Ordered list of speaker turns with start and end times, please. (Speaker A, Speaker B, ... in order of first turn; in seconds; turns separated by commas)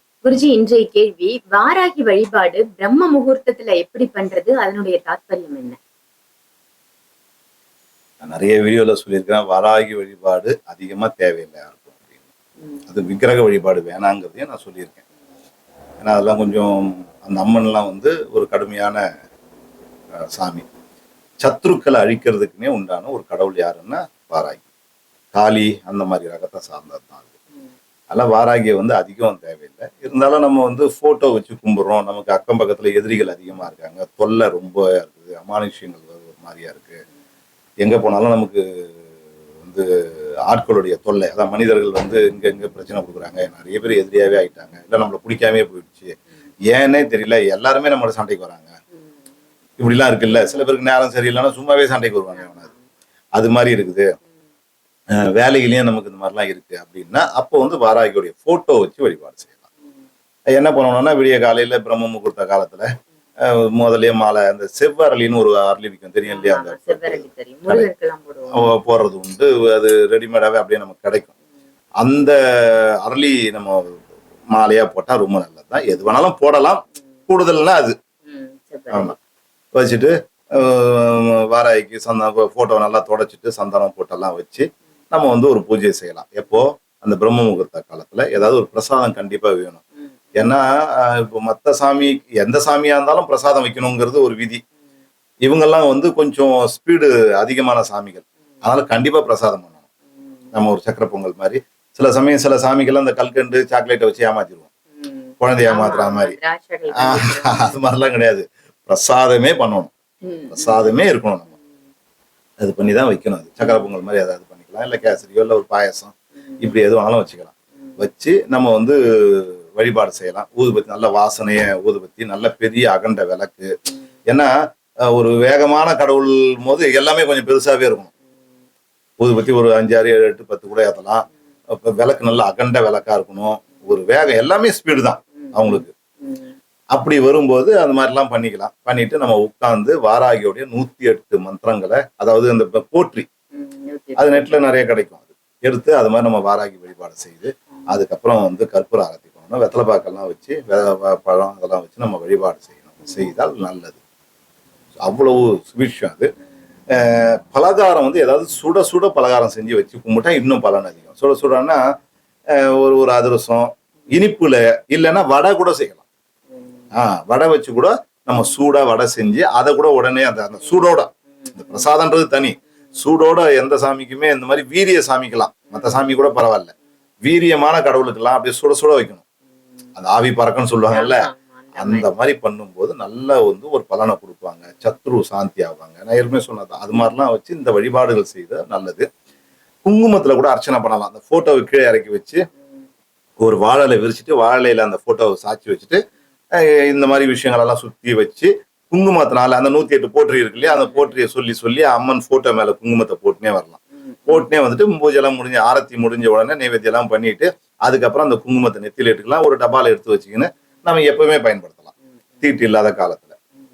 Speaker A: 0.2-5.8, Speaker B: 8.2-12.1, Speaker A: 12.6-12.8, Speaker B: 12.9-15.0, Speaker B: 16.0-19.0, Speaker B: 20.3-20.6, Speaker B: 21.4-24.6, Speaker B: 25.3-27.2, Speaker B: 28.1-37.0, Speaker B: 37.8-38.6, Speaker B: 40.5-46.1, Speaker B: 46.7-48.7, Speaker B: 49.8-52.7, Speaker A: 52.4-52.8, Speaker B: 53.4-54.1, Speaker B: 55.3-59.6, Speaker B: 60.5-62.9, Speaker B: 63.5-67.9, Speaker A: 66.3-68.7, Speaker B: 68.5-71.3, Speaker B: 72.0-72.3, Speaker B: 73.0-74.0, Speaker B: 74.5-77.9, Speaker A: 78.2-79.1, Speaker B: 79.7-89.8, Speaker B: 90.3-94.6, Speaker B: 95.4-99.8, Speaker B: 100.5-104.7, Speaker A: 105.0-107.8, Speaker B: 105.4-106.3, Speaker B: 107.0-109.9, Speaker A: 110.2-111.0, Speaker B: 110.5-111.5, Speaker B: 112.6-123.7, Speaker B: 125.1-128.1, Speaker B: 129.2-131.3, Speaker B: 131.9-135.9, Speaker A: 135.4-136.5, Speaker B: 136.9-143.2, Speaker A: 143.5-144.6, Speaker B: 144.2-154.0, Speaker B: 155.0-156.3, Speaker B: 156.9-161.8, Speaker B: 162.6-166.0, Speaker A: 166.6-166.8, Speaker B: 166.9-176.7, Speaker A: 171.4-171.8, Speaker B: 177.2-179.2, Speaker B: 180.0-189.1, Speaker A: 180.9-182.1, Speaker B: 189.8-192.4, Speaker B: 193.4-196.0, Speaker B: 196.8-211.9, Speaker A: 200.6-201.1, Speaker A: 204.0-204.5, Speaker B: 212.4-213.3